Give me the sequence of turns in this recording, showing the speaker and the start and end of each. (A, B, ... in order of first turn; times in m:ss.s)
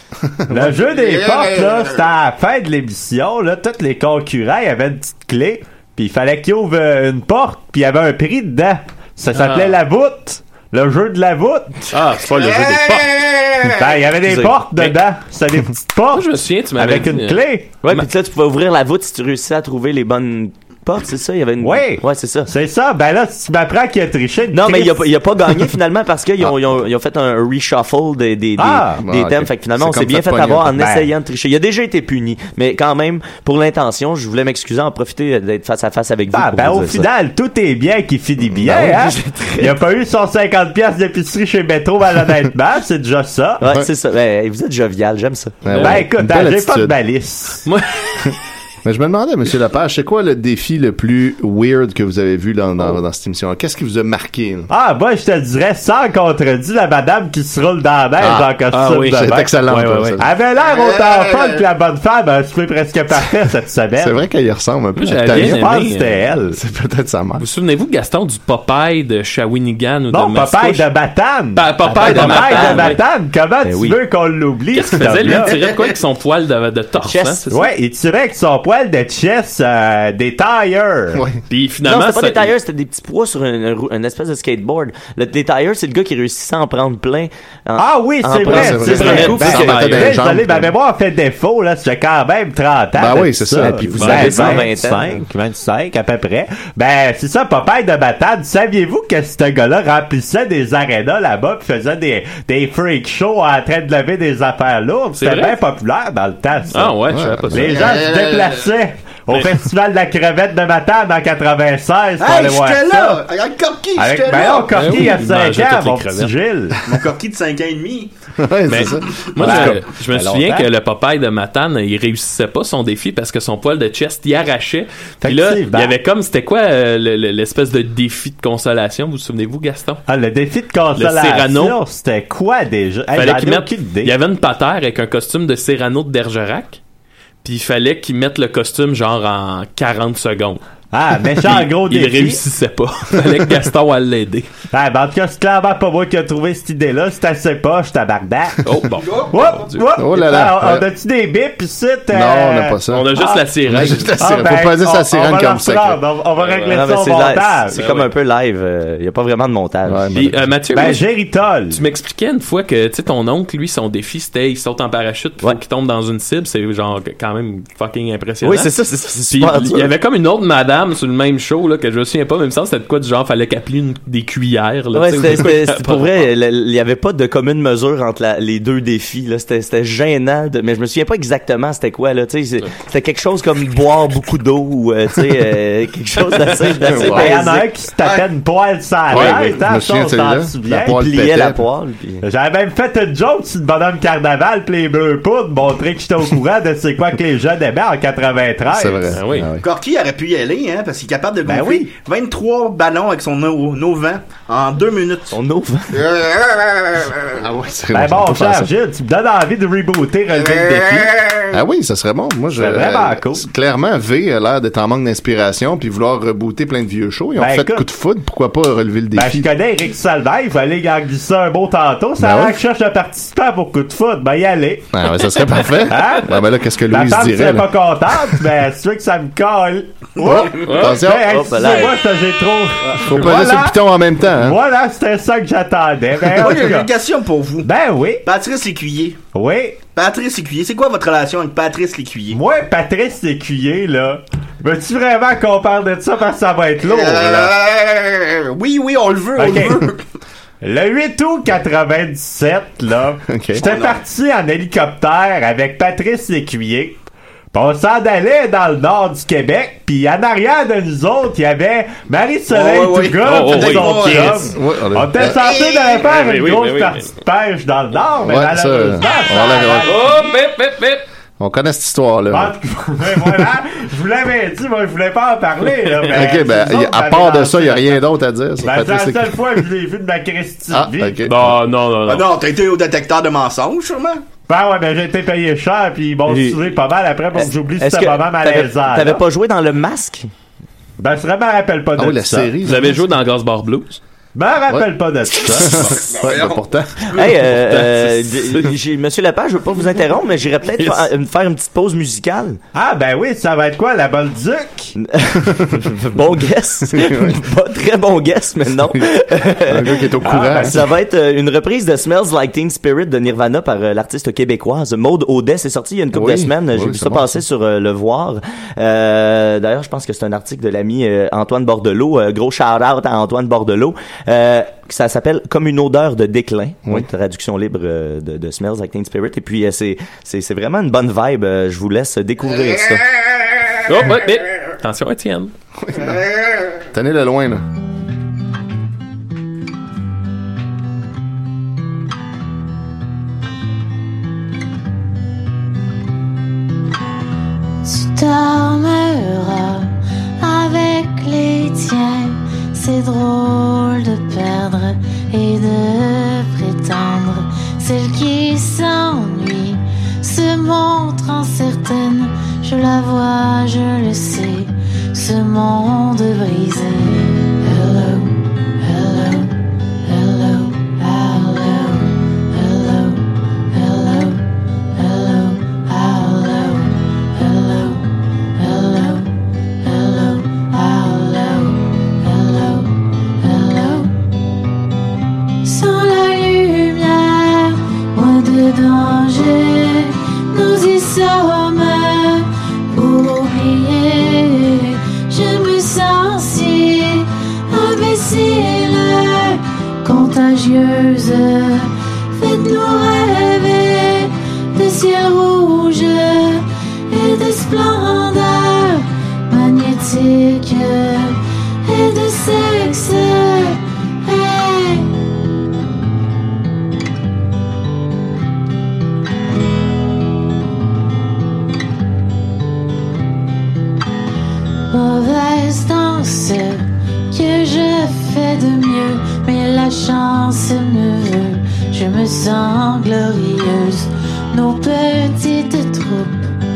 0:00.3-0:00.8 A
0:00.5-0:11.9 B
0:09.3-0:09.8 C
0:11.9-0:13.5 C
0:13.7-0:17.7 B
0:14.3-0:15.0 C
0:16.1-0:18.1 C
0:17.8-0:22.5 D
0:21.6-0:25.1 B
0:24.5-0:37.1 D
0:26.4-0:26.8 A
0:28.6-0:29.0 B
0:29.0-0:30.8 A
0:30.7-0:31.1 B
0:36.3-0:43.6 B
0:38.6-0:39.8 D
0:43.6-0:45.6 D
0:43.6-0:43.9 A
0:45.6-0:47.0 A
0:45.7-0:46.0 C
0:45.8-0:47.7 B
0:47.7-0:48.2 C
0:48.8-0:54.7 A
0:54.7-0:59.5 B
0:58.2-1:00.3 A
0:58.7-1:00.2 C
1:00.2-1:04.2 B
1:04.0-1:05.7 A
1:05.0-1:06.2 C
1:05.3-1:06.6 B
1:06.5-1:07.5 A
1:07.4-1:10.9 C
1:10.1-1:15.6 B
1:11.6-1:13.0 C
1:11.8-1:13.0 D
1:13.6-1:14.0 D
1:14.7-1:17.6 C
1:17.0-1:17.5 D
1:17.5-1:21.2 B
1:21.1-1:21.4 A
1:21.5-1:22.5 C
1:21.8-1:29.7 D
1:27.8-1:47.0 B
1:28.4-1:30.7 A
1:28.8-1:30.2 C
1:33.0-1:34.6 A
1:33.6-1:35.2 D
1:34.0-1:34.5 C
1:45.2-1:45.6 C
1:46.7-1:47.9 C
1:47.1-1:48.0 A
1:47.5-1:53.2 B
1:47.8-1:48.6 E
1:52.2-1:55.0 E
1:54.0-1:56.8 B
1:54.7-1:56.3 C
1:56.9-1:58.1 E
1:58.4-1:59.8 A
1:58.7-2:10.0 C
1:59.4-2:00.7 B
2:05.2-2:05.9 B
2:10.1-2:14.1 B
2:11.0-2:11.8 C
2:13.1-2:16.8 C
2:17.4-2:20.6 C
2:20.9-2:22.4 B
2:21.4-2:24.5 C
2:24.7-2:28.6 B
2:28.6-2:29.9 C
2:29.0-2:29.4 E
2:29.3-2:33.4 B
2:30.0-2:30.9 A
2:32.1-2:36.0 A
2:32.9-2:34.1 C
2:34.2-2:37.8 B
2:36.4-2:36.8 C
2:36.7-2:40.1 D
2:37.7-2:38.1 C
2:39.9-2:40.5 A
2:40.1-2:41.1 C
2:40.7-2:41.8 B
2:41.7-2:56.3 C
2:48.4-2:49.9 D
2:54.9-3:07.7 D
3:06.4-3:06.9 C
3:06.8-3:07.4 A
3:07.0-3:11.0 B
3:09.1-3:11.6 A
3:09.1-3:09.4 C
3:10.8-3:12.2 D
3:12.2-3:19.2 B
3:18.7-3:19.7 A
3:19.1-3:19.5 C
3:19.6-3:25.3 E
3:21.4-3:21.9 B
3:25.3-3:26.1 D
3:27.3-3:28.7 A
3:27.9-3:31.2 B
3:31.5-3:39.5 A
3:32.6-3:33.5 B
3:37.4-3:37.9 B
3:39.1-3:44.9 B
3:42.2-3:42.6 A
3:44.9-3:48.5 A
3:45.9-3:56.9 B
3:50.2-3:51.5 A
3:50.7-3:51.0 C
3:51.2-3:52.0 D
3:53.0-3:54.6 A
3:56.3-3:57.7 E
3:57.6-3:58.2 B
3:58.2-3:59.2 E
3:59.3-3:59.8 B
4:00.0-4:02.4 E
4:02.3-4:07.6 B
4:06.8-4:10.0 E
4:09.4-4:09.9 B
4:10.6-4:17.0 B
4:13.3-4:13.6 A
4:13.6-4:14.0 E
4:17.5-4:30.1 B
4:22.5-4:24.4 E
4:23.2-4:24.4 C
4:24.5-4:25.4 A
4:25.4-4:25.9 E
4:25.9-4:27.1 C
4:28.2-4:30.0 A
4:29.9-4:31.0 C
4:31.4-4:32.5 A
4:32.3-4:38.0 B
4:36.1-4:39.6 A
4:38.6-4:41.3 B
4:40.7-4:41.6 A
4:41.3-4:42.3 C
4:42.1-4:44.2 E
4:44.5-4:49.2 B
4:46.3-4:46.6 D
4:47.3-4:50.3 D
4:51.0-4:52.5 B
4:52.0-4:53.0 A
4:52.6-4:54.0 C
4:54.4-4:55.8 B
4:55.5-4:57.0 A
4:55.9-4:56.6 E
4:57.1-5:02.6 D
4:57.4-4:58.8 C
5:00.8-5:01.1 C
5:02.8-5:04.9 B
5:05.0-5:33.1 D
5:05.4-5:05.9 A
5:06.9-5:07.4 A
5:08.8-5:10.9 A
5:10.2-5:10.7 B
5:16.1-5:17.4 A
5:33.9-5:35.5 C
5:35.8-5:36.2 A
5:36.9-5:37.6 A
5:47.8-6:09.5 F
6:10.0-6:24.1 F
6:25.6-6:55.1 F
7:04.9-7:16.6 F